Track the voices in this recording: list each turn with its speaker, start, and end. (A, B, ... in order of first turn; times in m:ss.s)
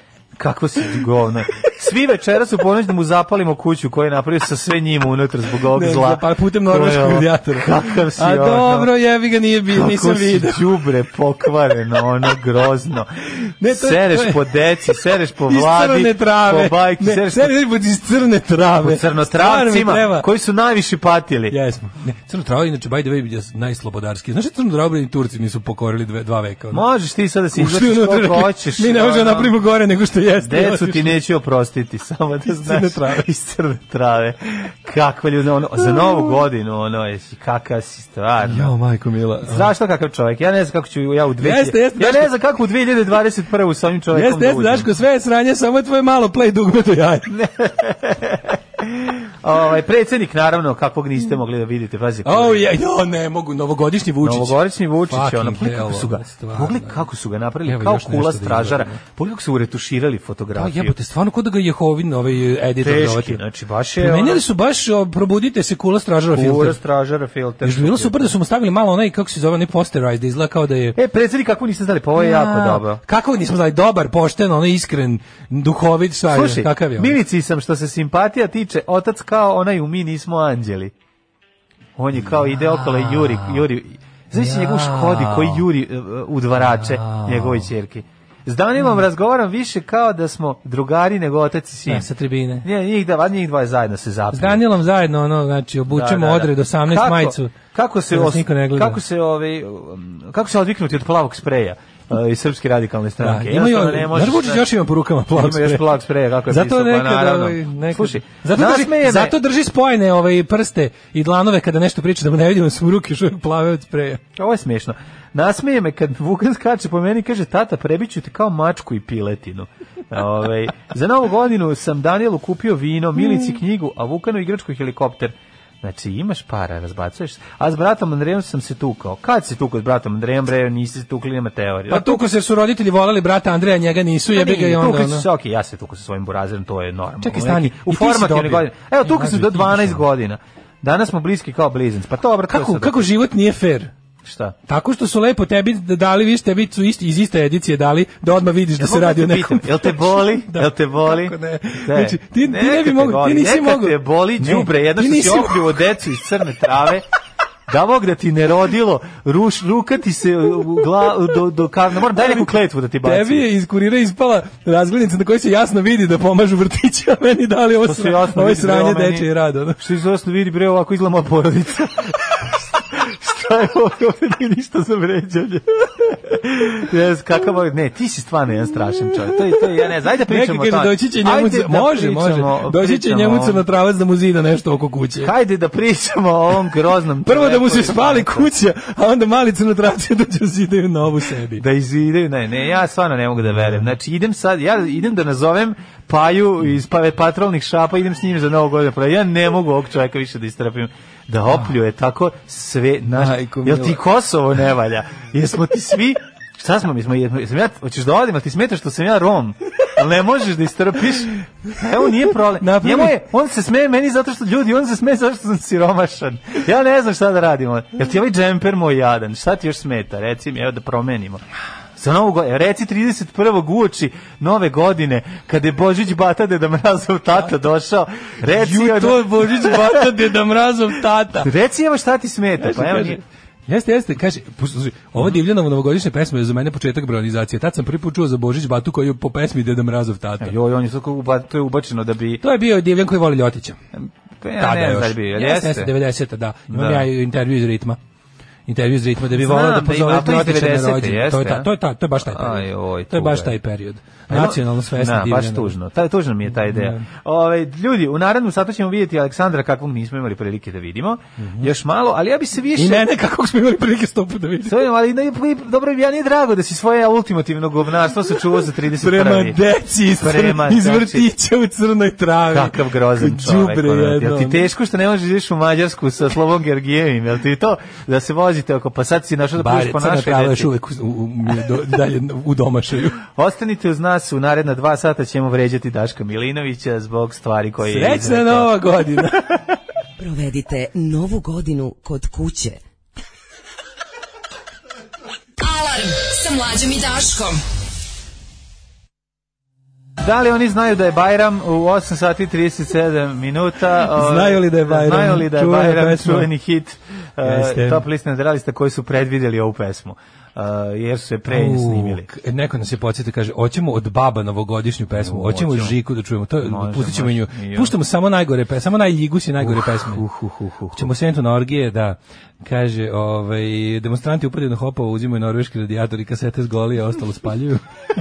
0:00.4-0:08.9 A
0:05.7-0:10.7 B
0:09.7-0:13.1 A
0:13.6-0:20.2 B
0:13.7-0:17.5 A
0:18.8-0:21.6 A
0:21.5-0:26.8 B
0:26.7-0:29.5 A
0:27.5-0:31.2 B
0:30.4-0:38.7 A
0:32.4-0:33.2 B
0:38.4-0:39.7 B
0:39.4-0:44.9 A
0:41.4-0:42.3 B
0:44.1-0:47.3 B
0:47.3-0:52.7 A
0:52.2-0:57.0 B
0:54.2-1:00.9 A
0:57.6-0:59.0 B
1:00.5-1:03.4 B
1:02.8-1:04.4 A
1:04.0-1:06.8 B
1:06.3-1:08.3 A
1:07.6-1:11.0 B
1:10.9-1:13.0 A
1:12.2-1:17.2 B
1:16.3-1:20.9 A
1:22.0-1:32.1 A
1:22.5-1:23.6 B
1:24.3-1:25.6 B
1:26.6-1:27.7 B
1:31.9-1:32.6 B
1:32.6-1:34.6 A
1:34.3-1:37.5 B
1:35.9-1:44.7 A
1:38.1-1:39.0 B
1:43.2-1:45.9 B
1:45.3-1:49.4 A
1:46.5-1:54.2 B
1:54.4-2:12.2 A
2:11.9-2:15.3 B
2:14.3-2:23.1 A
2:17.2-2:20.0 B
2:22.5-2:23.9 B
2:24.2-2:24.5 A
2:24.7-2:35.7 B
2:28.8-2:37.0 A
2:37.7-2:43.4 A
2:42.1-2:42.5 B
2:43.0-2:49.8 B
2:47.8-3:03.6 A
3:00.3-3:05.3 B
3:05.2-3:08.5 A
3:07.2-3:11.6 B
3:11.6-3:41.4 A
3:23.1-3:24.0 B
3:32.6-3:33.2 B
3:42.0-3:50.2 A
3:48.5-3:51.5 B
3:51.4-3:53.2 A
3:52.6-4:00.5 B
4:00.4-4:02.4 A
4:02.4-4:03.8 B
4:03.9-4:05.9 A
4:04.6-4:08.0 B
4:06.7-4:07.1 A
4:08.7-4:15.7 B
4:09.3-4:11.7 A
4:12.2-4:13.5 A
4:14.3-4:23.1 A
4:16.5-4:17.1 B
4:21.4-4:21.7 B
4:22.8-4:24.9 B
4:24.6-4:29.6 A
4:28.9-4:34.7 B
4:30.1-4:31.3 A
4:32.5-4:40.7 A
4:39.6-4:43.2 B
4:43.2-4:48.7 A
4:47.8-4:49.6 B
4:50.2-4:52.8 C
4:55.6-4:57.6 D
5:00.2-5:12.3 A
5:04.1-5:06.5 B
5:07.4-5:08.0 B
5:11.5-5:20.2 B
5:15.1-5:16.0 A
5:16.6-5:17.9 A
5:19.6-5:21.1 A
5:20.9-5:27.8 B